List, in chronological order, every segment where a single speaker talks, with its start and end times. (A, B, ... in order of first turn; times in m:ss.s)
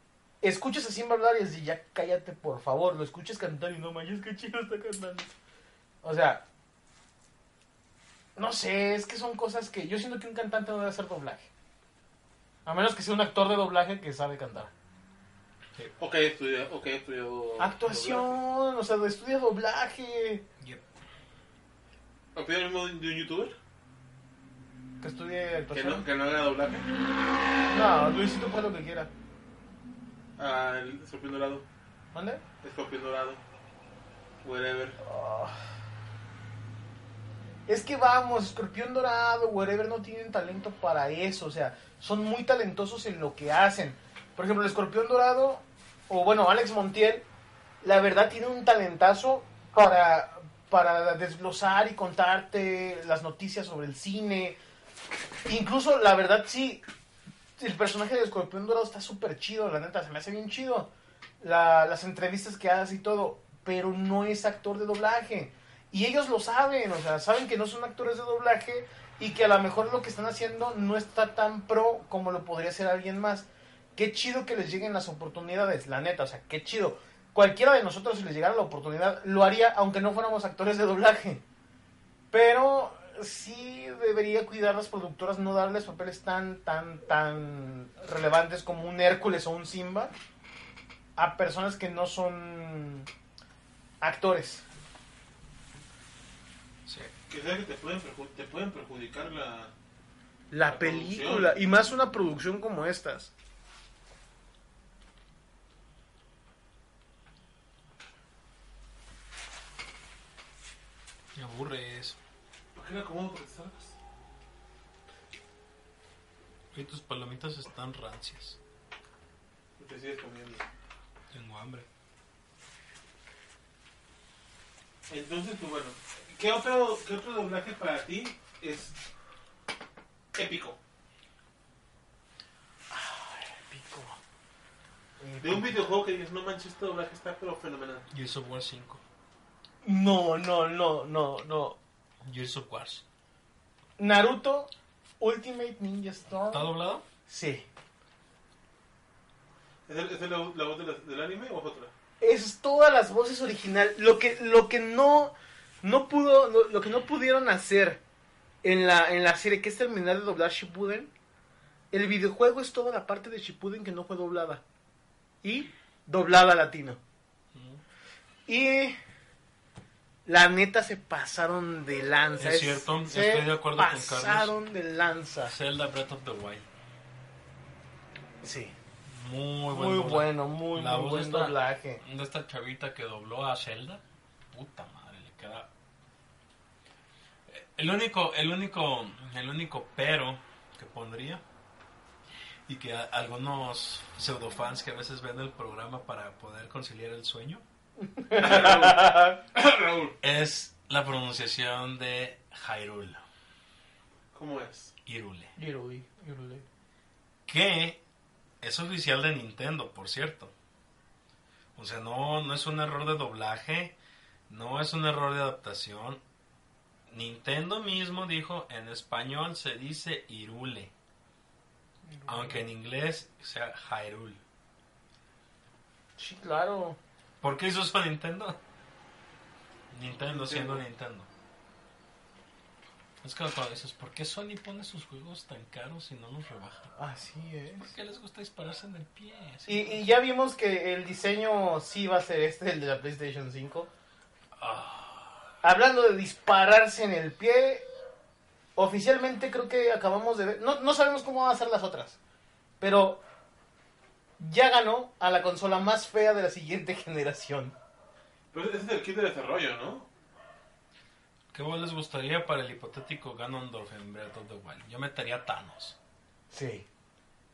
0:00.4-0:05.3 A
0:06.0-0:06.4 A
0:08.4-0:11.5 A
0:12.6-0:14.7 A
0:16.0-0:18.4 B
0:17.6-0:20.4 A
0:22.3-0:23.5 B
0:25.0-0:26.0 A
0:25.7-0:26.9 B
0:27.7-0:29.1 A
0:30.4-0:31.6 B
0:32.1-0:32.4 A
0:32.6-0:33.4 B
0:34.4-0:35.0 B
0:35.0-0:35.6 A
0:37.7-0:47.2 A
0:47.8-0:54.6 A
0:55.4-0:56.8 A
0:57.6-1:21.4 A
1:22.3-1:30.1 A
1:31.2-1:33.1 A
1:34.0-1:34.6 A
1:36.8-1:37.1 C
1:37.3-1:39.7 B
1:40.5-1:43.3 A
1:40.6-1:41.6 B
1:51.4-1:52.2 C
1:52.7-1:54.0 B
1:56.7-1:58.6 C
1:59.8-2:00.6 B
2:01.3-2:01.9 C
2:05.1-2:09.0 B
2:10.3-2:10.8 B
2:12.9-2:14.2 A
2:15.2-2:15.9 A
2:15.4-2:18.0 B
2:18.1-2:19.0 C
2:19.8-2:21.8 A
2:22.2-2:23.0 C
2:24.0-2:26.7 A
2:26.5-2:27.0 C
2:27.3-2:27.6 A
2:29.9-2:31.9 B
2:32.2-2:38.0 A
2:38.6-2:41.1 A
2:41.9-2:44.6 A
2:45.4-2:47.0 A
2:47.5-2:47.8 C
2:48.5-2:49.0 A
2:50.2-2:55.5 A
2:52.4-2:54.5 C
2:55.5-2:56.6 C
2:58.4-2:58.7 A
2:59.0-3:05.7 C
2:59.7-3:02.0 A
3:07.5-3:11.4 C
3:12.7-3:17.6 C
3:18.0-3:19.4 A
3:18.4-3:20.2 B
3:20.2-3:23.2 C
3:24.3-3:24.9 B
3:25.0-3:25.5 C
3:25.6-3:26.6 A
3:27.4-3:28.0 C
3:28.6-3:30.5 C
3:31.8-3:34.0 C
3:34.5-3:36.2 C
3:37.1-3:40.9 C
3:42.0-3:42.6 A
3:42.3-3:44.4 C
3:46.2-3:47.0 A
3:47.4-3:48.6 C
3:49.9-3:51.3 C
3:50.3-3:50.8 B
3:53.2-3:56.9 C
3:57.0-3:57.9 A
3:57.8-4:00.0 C
3:59.7-4:03.9 A
4:04.6-4:05.4 C
4:05.6-4:07.9 A
4:08.8-4:12.2 A
4:12.8-4:13.2 A
4:14.4-4:17.7 A
4:18.5-4:20.1 B
4:21.5-4:26.0 C
4:26.5-4:26.8 A